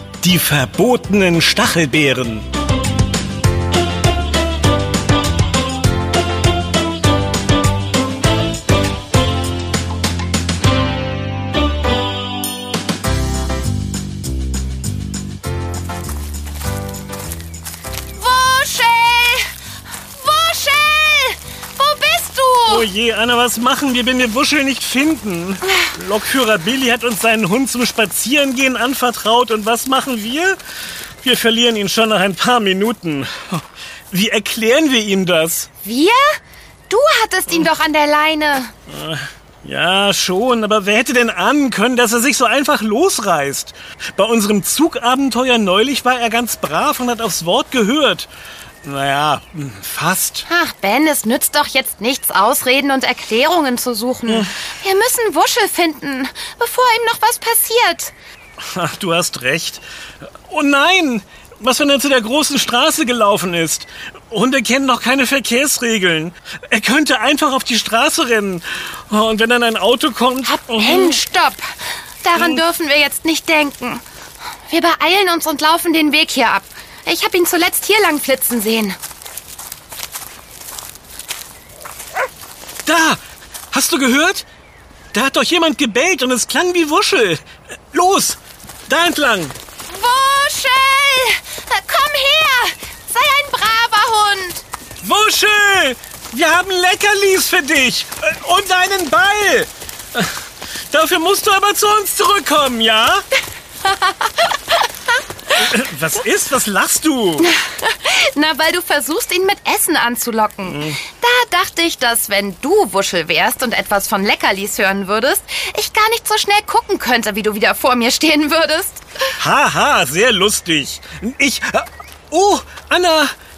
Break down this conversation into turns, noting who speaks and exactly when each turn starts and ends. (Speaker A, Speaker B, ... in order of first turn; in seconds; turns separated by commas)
Speaker A: 0.2-2.5, Speaker B: 18.1-19.5, Speaker B: 20.1-22.9, Speaker A: 22.7-30.6, Speaker A: 31.2-35.7, Speaker B: 35.8-36.3, Speaker B: 36.9-38.7, Speaker A: 38.9-48.3, Speaker A: 48.8-50.5, Speaker B: 50.5-58.1, Speaker A: 58.6-59.8, Speaker A: 60.5-71.2, Speaker B: 70.4-71.6, Speaker B: 72.2-74.0, Speaker B: 74.7-79.0, Speaker A: 82.8-83.2, Speaker A: 83.7-84.4, Speaker A: 85.1-89.5, Speaker B: 89.9-94.6, Speaker A: 95.0-100.3, Speaker A: 100.9-103.2, Speaker B: 103.8-104.8, Speaker A: 105.5-107.5, Speaker B: 107.4-119.2, Speaker A: 110.7-111.0, Speaker A: 119.4-123.3